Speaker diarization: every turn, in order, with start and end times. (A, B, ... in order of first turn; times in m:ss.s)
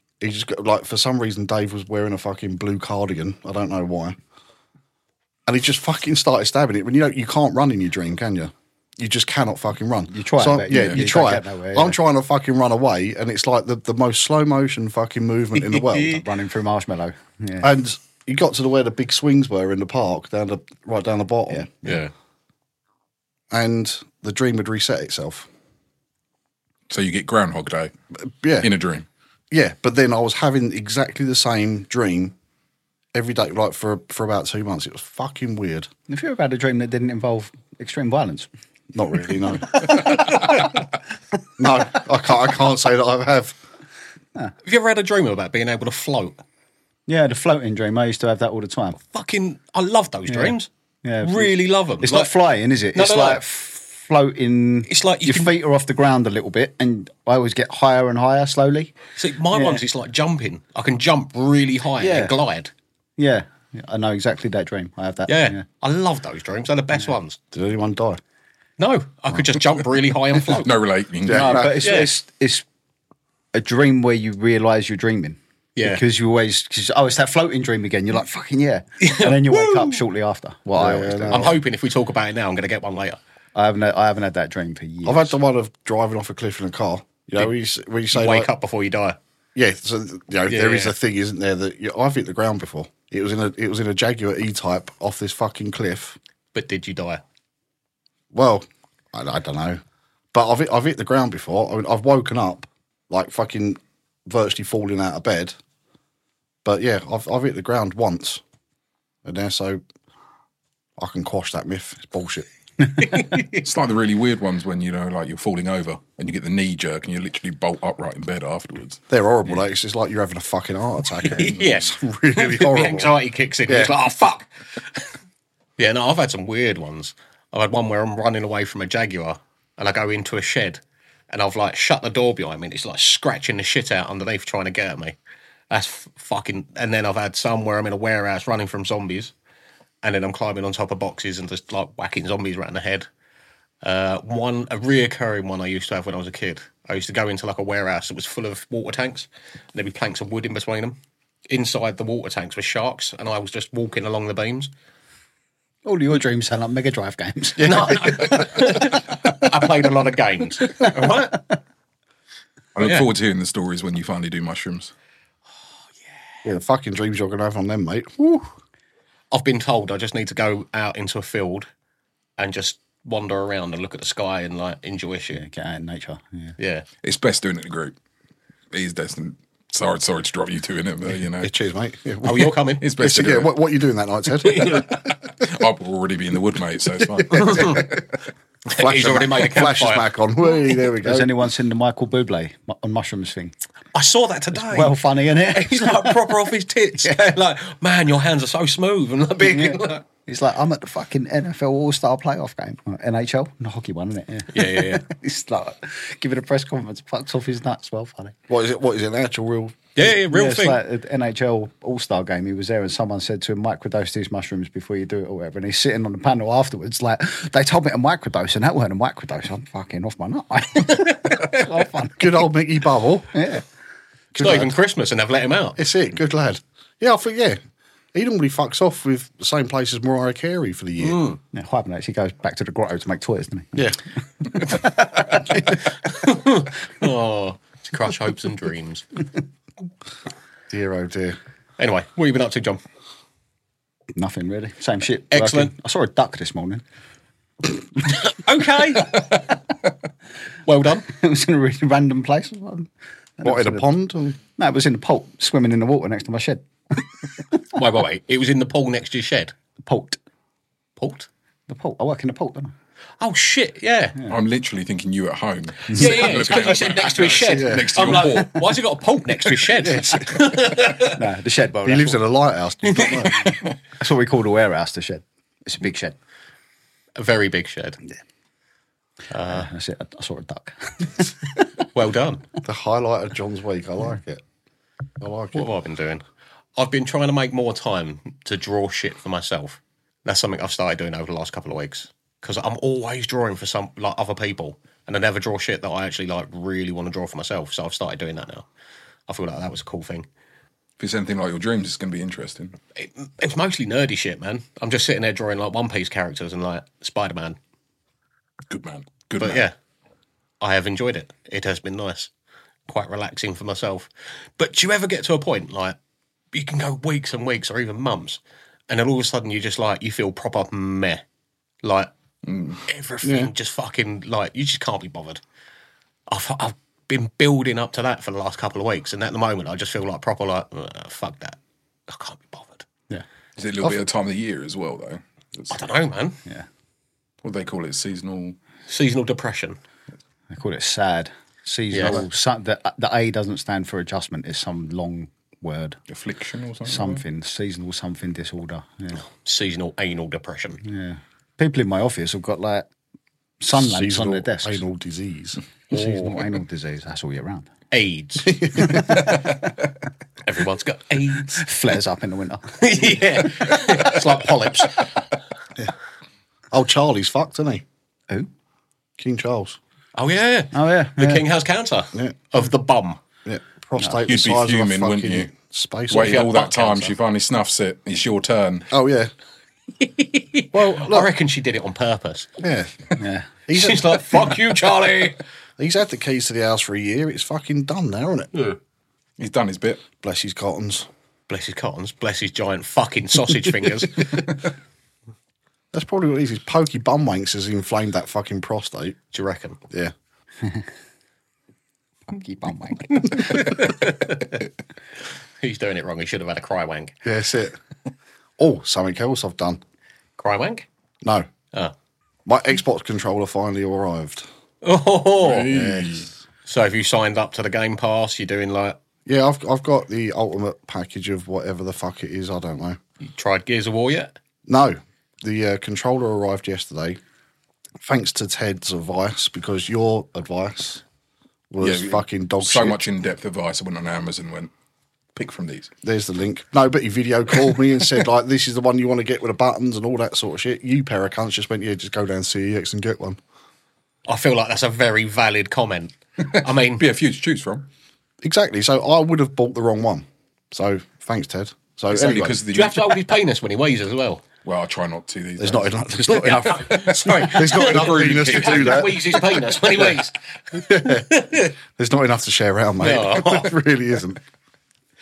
0:00.2-0:04.2 A
0:05.5-0:16.2 A
0:10.1-0:12.0 B
0:10.7-0:11.0 C
0:16.0-0:17.7 B
0:17.6-0:21.7 A
0:21.5-0:22.0 B
0:21.8-0:22.1 D
0:23.5-0:25.5 A
0:26.9-0:27.9 C
0:28.2-0:28.7 A
0:28.6-0:29.0 C
0:29.5-0:32.3 A
0:33.1-0:35.9 A
0:36.1-0:38.5 B
0:38.9-0:40.2 A
0:39.7-0:40.8 B
0:41.6-0:43.6 A
0:44.6-0:46.4 D
0:47.1-0:49.0 B
0:48.9-0:50.7 D
0:50.3-0:58.9 B
0:51.2-0:52.3 D
0:52.9-0:53.4 D
0:54.9-0:55.6 D
0:59.2-1:02.7 D
0:59.5-0:59.8 B
1:02.0-1:02.3 B
1:03.2-1:05.6 B
1:05.3-1:07.4 D
1:07.5-1:08.2 A
1:08.8-1:10.7 D
1:10.5-1:11.7 C
1:11.2-1:12.0 A
1:11.3-1:12.6 B
1:11.8-1:12.1 D
1:13.5-1:21.5 B
1:15.8-1:16.0 D
1:19.0-1:20.0 D
1:20.7-1:21.6 A
1:21.3-1:23.2 D
1:23.5-1:25.4 B
1:25.0-1:28.5 A
1:28.1-1:29.2 D
1:29.5-1:36.2 A
1:30.5-1:30.9 D
1:36.5-1:37.2 D
1:38.3-1:39.8 A
1:40.3-1:45.5 A
1:46.6-1:48.4 A
1:49.2-1:49.8 A
1:51.0-1:52.4 A
1:53.0-1:53.6 D
1:53.4-1:59.0 C
1:59.1-2:03.2 A
2:01.2-2:05.0 D
2:03.7-2:03.9 A
2:05.8-2:15.2 D
2:15.7-2:19.3 D
2:20.0-2:23.1 D
2:23.8-2:31.0 D
2:31.5-2:34.7 D
2:35.8-2:39.0 B
2:37.6-2:38.5 A
2:37.6-2:41.4 D
2:40.8-2:41.2 B
2:42.7-2:44.9 C
2:42.8-2:43.1 D
2:46.4-2:48.5 A
2:49.3-2:51.7 D
2:52.4-2:55.4 D
2:55.3-2:56.5 B
2:56.6-2:56.8 D
2:57.0-2:57.9 C
2:58.7-3:01.5 C
3:01.4-3:04.9 A
3:02.2-3:02.8 D
3:02.8-3:03.5 C
3:04.5-3:05.1 D
3:04.7-3:08.0 C
3:07.3-3:07.8 A
3:07.3-3:07.9 D
3:08.6-3:10.1 D
3:08.8-3:11.3 A
3:11.0-3:13.5 B
3:13.9-3:20.0 D
3:14.5-3:16.2 B
3:19.4-3:28.3 B
3:24.5-3:25.0 D
3:28.5-3:29.8 A
3:30.0-3:30.8 D
3:30.0-3:42.5 B
3:40.9-3:41.6 D
3:42.2-3:43.3 A
3:43.3-3:43.6 B
3:44.3-3:44.7 A
3:44.4-3:45.8 D
3:45.8-3:47.6 A
3:48.1-3:51.2 A
3:51.0-3:51.4 D
3:51.5-3:53.9 B
3:54.4-3:55.8 B
3:55.9-3:59.0 D
4:00.7-4:01.4 A
4:01.8-4:02.8 D
4:04.1-4:06.8 B
4:05.3-4:05.7 D
4:08.0-4:09.6 D
4:10.6-4:11.1 D
4:11.0-4:17.0 B
4:13.4-4:14.4 A
4:17.7-4:19.5 D
4:19.8-4:20.2 B
4:21.0-4:21.3 D
4:21.7-4:22.7 B
4:23.2-4:24.2 D
4:24.3-4:28.8 C
4:25.9-4:26.3 B
4:25.9-4:31.2 D
4:27.4-4:28.3 A
4:29.8-4:30.3 A
4:31.0-4:32.2 B
4:31.8-4:33.6 A
4:32.8-4:33.3 D
4:34.0-4:36.2 B
4:37.2-4:38.0 D
4:39.3-4:39.7 D
4:39.4-4:41.6 B
4:41.9-4:42.4 D
4:42.6-4:44.4 A
4:45.2-4:45.7 A
4:45.5-4:46.2 D
4:46.8-4:58.6 D
4:59.3-5:00.3 D
5:01.0-5:02.8 C
5:02.9-5:07.6 D
5:08.7-5:09.6 C
5:09.4-5:09.7 D
5:10.6-5:12.3 D
5:12.9-5:16.0 D
5:16.5-5:21.2 D
5:21.8-5:22.1 D
5:22.4-5:22.8 C
5:22.9-5:25.4 D
5:23.2-5:23.5 A
5:26.3-5:32.8 D
5:33.6-5:35.7 C
5:35.7-5:36.4 D
5:37.4-5:38.6 C
5:38.9-5:39.8 D
5:40.5-5:46.0 B
5:41.9-5:42.2 D
5:46.1-5:47.2 C
5:46.8-5:49.2 B
5:49.2-5:50.8 D
5:50.8-5:52.9 B
5:53.6-5:54.8 B
5:53.7-5:55.6 A
5:55.9-5:57.7 B
5:57.9-5:59.0 D
5:58.4-5:59.3 A
5:58.8-5:59.5 B
6:00.4-6:01.6 D
6:01.3-6:03.7 B
6:02.8-6:05.1 D
6:06.7-6:07.8 A
6:09.2-6:09.8 A
6:10.1-6:13.2 D
6:10.7-6:11.4 B
6:13.4-6:16.4 A
6:14.1-6:15.5 C
6:16.1-6:18.9 C
6:16.1-6:17.1 D
6:18.9-6:19.3 A
6:20.0-6:22.5 D
6:20.7-6:21.3 A
6:22.6-6:23.1 A
6:23.2-6:23.5 B
6:23.7-6:24.6 A
6:23.7-6:25.4 D
6:25.8-6:28.5 A
6:29.4-6:30.0 C
6:30.2-6:31.1 A
6:31.5-6:34.4 D
6:35.9-6:39.2 A
6:39.3-6:39.8 D
6:42.3-6:43.8 B
6:43.1-6:44.6 D
6:45.6-6:47.1 D
6:47.2-6:47.8 A
6:48.6-6:49.8 A
6:50.4-6:50.9 D
6:51.2-6:51.5 A
6:52.4-6:54.4 A
6:54.8-6:55.7 D
6:55.4-6:56.3 C
6:55.6-6:56.2 A
6:56.6-6:59.0 D
6:59.2-7:03.0 A
7:03.2-7:04.3 D
7:04.7-7:07.2 A
7:08.0-7:11.0 A
7:11.7-7:13.0 A
7:11.8-7:14.7 C
7:15.3-7:15.9 C
7:16.0-7:23.4 A
7:24.3-7:27.0 D
7:27.0-7:27.9 C
7:28.4-7:32.6 A
7:32.1-7:33.2 C
7:32.6-7:34.4 D
7:34.6-7:36.6 C
7:35.6-7:40.0 A
7:36.3-7:41.7 D
7:37.6-7:39.2 C
7:40.7-7:44.4 A
7:43.0-7:43.7 D